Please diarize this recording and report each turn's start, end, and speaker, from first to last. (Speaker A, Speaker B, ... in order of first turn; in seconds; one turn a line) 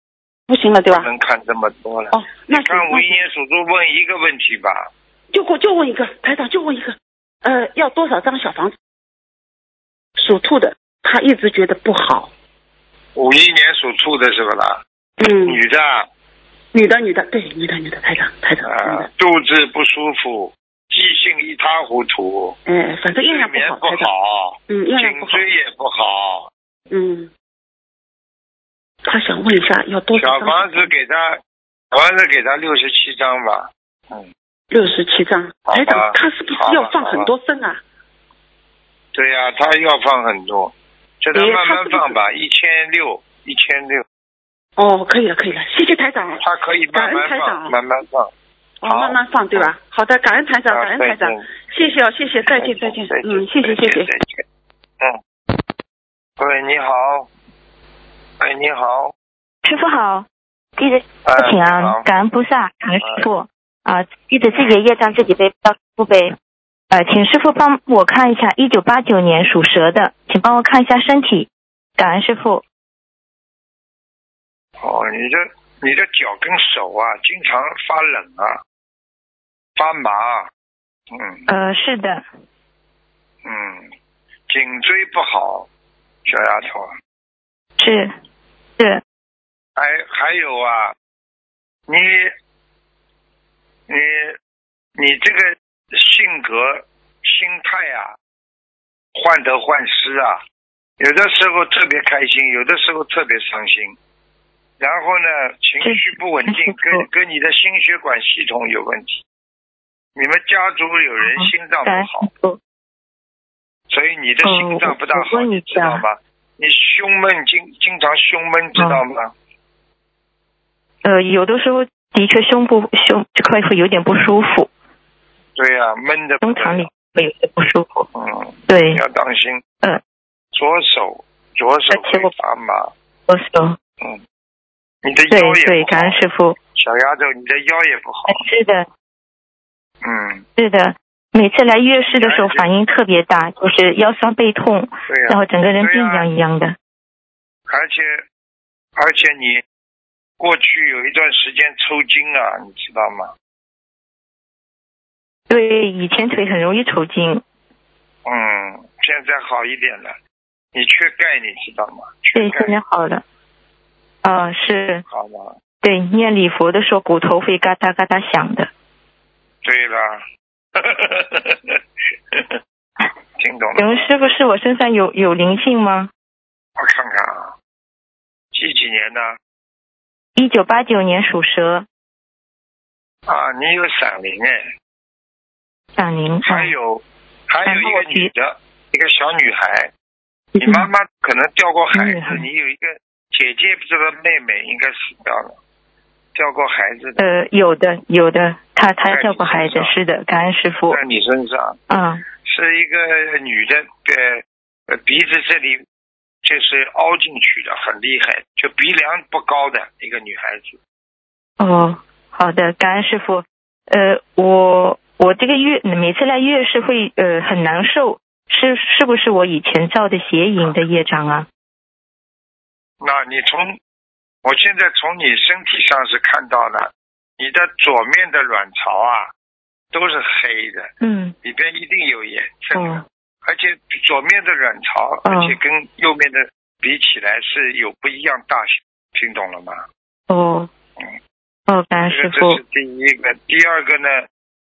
Speaker A: 0.5-1.1
Speaker B: 0.9-4.9
Speaker A: 2.1-3.2
Speaker A: 5.3-8.7
Speaker A: 10.2-12.3
Speaker B: 13.2-14.8
Speaker A: 15.2-15.6
Speaker B: 15.4-16.1
Speaker A: 16.7-19.1
Speaker B: 18.6-22.6
Speaker A: 22.6-24.1
Speaker B: 23.2-26.5
Speaker A: 24.7-25.4
Speaker A: 26.9-27.3
Speaker A: 29.0-30.9
Speaker B: 30.2-31.4
Speaker B: 31.9-34.3
Speaker A: 34.7-37.8
Speaker B: 35.7-37.3
Speaker B: 39.1-44.0
Speaker A: 41.3-42.2
Speaker A: 44.8-47.7
Speaker B: 46.4-48.3
Speaker A: 48.8-54.1
Speaker B: 48.8-49.7
Speaker B: 50.7-51.7
Speaker B: 52.5-54.4
Speaker B: 56.4-57.3
Speaker B: 58.4-59.1
Speaker C: 59.6-60.2
Speaker C: 60.8-66.3
Speaker B: 61.2-62.0
Speaker B: 63.0-63.3
Speaker C: 66.9-72.6
Speaker B: 74.8-78.6
Speaker B: 79.8-80.5
Speaker B: 81.1-81.4
Speaker C: 81.5-82.2
Speaker B: 83.4-83.9
Speaker B: 84.5-85.7
Speaker B: 86.2-86.9
Speaker C: 87.8-88.1
Speaker B: 89.8-90.9
Speaker B: 91.9-92.3
Speaker B: 93.9-94.4
Speaker B: 95.0-98.2
Speaker B: 99.1-100.4
Speaker B: 101.0-104.0
Speaker B: 104.8-109.2
Speaker C: 105.8-107.1
Speaker B: 110.2-112.3
Speaker C: 111.2-112.6
Speaker B: 113.9-119.3
Speaker C: 114.4-116.0
Speaker C: 118.8-119.0
Speaker C: 121.0-124.7
Speaker B: 125.5-126.9
Speaker C: 126.4-128.1
Speaker B: 128.1-129.6
Speaker C: 128.7-129.0
Speaker B: 130.5-132.9
Speaker C: 131.9-132.3
Speaker C: 133.3-133.8
Speaker B: 135.0-136.2
Speaker C: 135.3-136.6
Speaker B: 136.7-138.4
Speaker C: 138.3-138.9
Speaker B: 140.0-140.4
Speaker C: 140.6-146.7
Speaker B: 142.1-142.7
Speaker B: 145.1-146.2
Speaker B: 147.7-148.2
Speaker B: 149.0-149.6
Speaker B: 150.4-153.3
Speaker C: 155.5-157.4
Speaker B: 158.2-160.2
Speaker B: 160.7-162.7
Speaker C: 162.3-163.2
Speaker C: 164.2-165.0
Speaker B: 165.1-165.6
Speaker C: 165.8-168.7
Speaker B: 169.6-170.2
Speaker B: 170.8-171.8
Speaker B: 172.3-172.6
Speaker B: 173.4-174.1
Speaker C: 173.8-176.1
Speaker B: 176.8-177.5
Speaker B: 178.5-179.3
Speaker C: 180.3-181.8
Speaker B: 183.3-184.6
Speaker C: 186.0-186.7
Speaker B: 186.4-189.9
Speaker C: 187.6-188.3
Speaker C: 190.5-190.9
Speaker B: 190.6-195.6
Speaker C: 191.9-192.5
Speaker B: 196.3-197.2
Speaker C: 197.2-201.0
Speaker B: 199.0-199.9
Speaker B: 200.9-201.8
Speaker C: 201.9-202.2
Speaker B: 202.4-205.8
Speaker B: 206.4-210.8
Speaker C: 211.6-221.5
Speaker B: 223.0-223.8
Speaker B: 224.4-229.3
Speaker B: 229.9-230.9
Speaker C: 231.0-231.3
Speaker B: 231.4-239.8
Speaker C: 232.7-233.0
Speaker C: 235.2-235.6
Speaker C: 240.3-240.7
Speaker C: 241.7-242.6
Speaker B: 242.1-244.2